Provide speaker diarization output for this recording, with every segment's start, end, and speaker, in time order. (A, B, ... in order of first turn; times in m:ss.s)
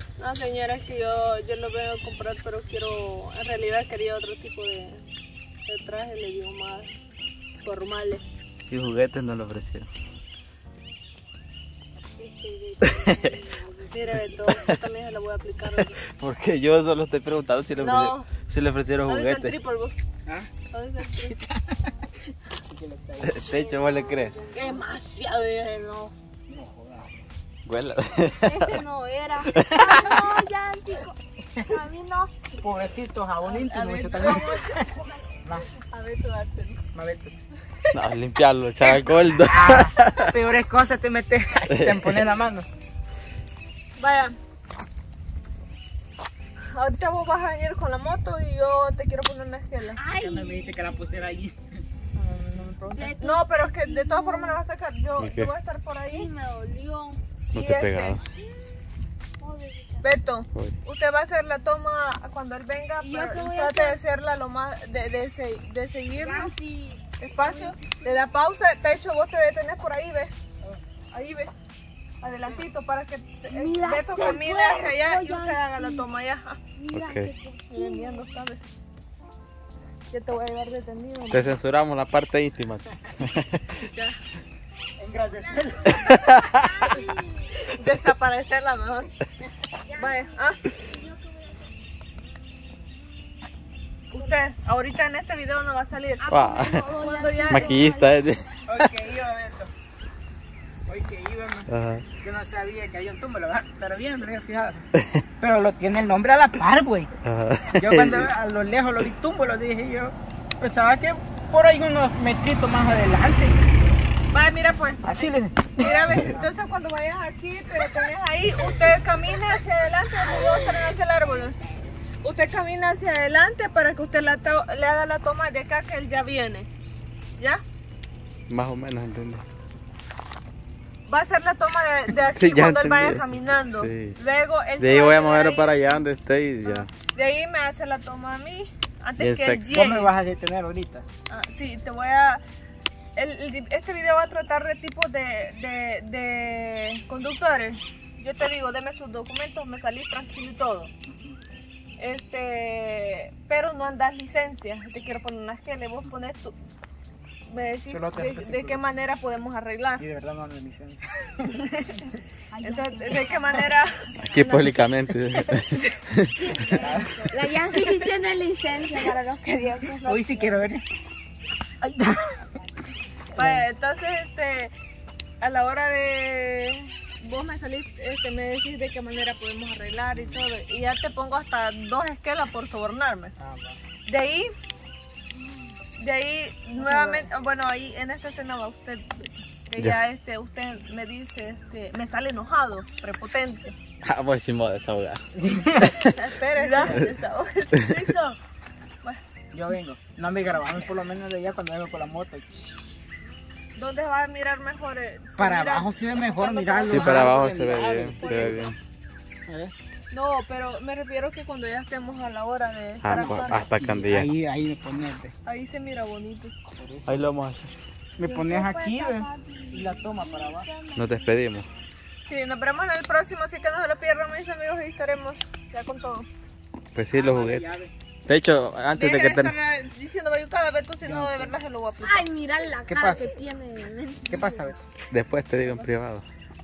0:00.2-0:05.0 A
0:05.7-0:06.9 A
0:07.6-0:08.3 A
0:08.7-0:09.9 B
0:12.2-0:14.3 C
0:12.8-0:13.3 B
0:13.9-0:16.0 A
0:16.2-0:19.5 B
0:17.8-0:18.3 A
0:19.0-0:20.0 A
0:20.7-0:21.5 A
0:21.5-0:21.8 D
0:22.7-0:23.4 D
0:23.2-0:24.4 B
0:23.2-0:24.8 C
0:24.5-0:26.1 A
0:26.5-0:27.2 D
0:27.7-0:28.8 B
0:28.4-0:31.2 C
0:29.6-0:30.0 B
0:31.7-0:32.1 A
0:31.7-0:32.2 C
0:32.6-0:35.7 D
0:33.4-0:36.8 A
0:36.9-0:37.4 D
0:37.9-0:40.3 B
0:39.5-0:42.7 D
0:41.7-0:42.2 B
0:44.0-0:44.4 A
0:46.7-0:50.0 A
0:50.0-0:51.0 C
0:50.2-0:51.6 D
0:52.2-0:56.3 A
0:52.9-0:54.6 C
0:55.2-0:55.5 B
0:56.0-0:57.2 C
0:57.5-0:58.2 B
0:57.5-0:58.2 A
0:59.4-1:00.1 C
1:00.0-1:06.5 A
1:03.0-1:04.0 C
1:06.2-1:08.0 C
1:07.2-1:10.3 A
1:11.1-1:11.5 A
1:12.2-1:16.6 A
1:13.5-1:16.1 C
1:16.8-1:18.3 C
1:16.9-1:17.3 B
1:17.7-1:18.6 A
1:20.1-1:21.6 A
1:21.3-1:23.6 B
1:23.7-1:24.2 A
1:25.0-1:26.1 D
1:25.5-1:27.6 C
1:26.1-1:26.4 B
1:27.6-1:29.2 A
1:29.9-1:31.7 C
1:29.9-1:30.8 A
1:34.1-1:36.4 A
1:36.2-1:38.2 C
1:36.3-1:36.9 B
1:37.0-1:37.9 A
1:37.5-1:38.8 B
1:38.7-1:39.7 D
1:40.9-1:41.7 D
1:41.7-1:42.0 B
1:42.2-1:44.9 D
1:45.4-1:47.1 D
1:47.2-1:48.3 B
1:47.8-1:53.6 D
1:54.3-2:01.6 A
1:55.0-1:56.5 D
2:02.2-2:06.7 A
2:08.5-2:09.4 B
2:11.1-2:16.0 A
2:12.3-2:14.2 B
2:14.8-2:16.9 B
2:16.6-2:20.1 A
2:19.2-2:19.8 B
2:19.7-2:21.0 D
2:21.3-2:22.4 A
2:23.2-2:30.9 A
2:31.1-2:31.4 D
2:32.0-2:36.5 A
2:37.5-2:40.1 A
2:37.9-2:38.8 D
2:40.0-2:41.5 D
2:41.5-2:44.9 A
2:42.5-2:43.6 C
2:44.2-2:46.5 B
2:45.4-2:45.9 D
2:46.3-2:50.7 C
2:46.7-2:47.3 D
2:50.0-2:50.8 D
2:51.8-2:52.4 D
2:53.3-2:53.7 D
2:53.4-2:54.7 A
2:55.4-3:03.3 A
3:00.1-3:00.4 D
3:03.4-3:03.8 D
3:04.1-3:04.5 A
3:06.0-3:13.8 A
3:06.8-3:07.3 C
3:14.0-3:15.2 B
3:15.4-3:15.9 D
3:15.8-3:16.1 B
3:16.1-3:18.4 A
3:16.6-3:17.0 C
3:19.5-3:22.7 D
3:23.8-3:28.7 A
3:25.4-3:28.7 D
3:26.9-3:28.8 B
3:29.5-3:29.7 D
3:30.1-3:33.6 A
3:33.0-3:34.3 B
3:33.1-3:35.3 D
3:35.4-3:36.6 A
3:36.8-3:37.3 D
3:37.1-3:37.8 B
3:38.2-3:40.7 D
3:38.2-3:41.3 C
3:41.0-3:41.7 B
3:42.2-3:46.3 A
3:47.0-3:47.7 B
3:47.1-3:47.9 D
3:48.3-3:49.6 B
3:49.0-3:52.3 A
3:51.0-3:51.6 D
3:52.0-3:54.8 C
3:52.9-3:53.4 D
3:54.3-3:54.8 D
3:55.1-3:56.2 B
3:55.6-3:55.9 A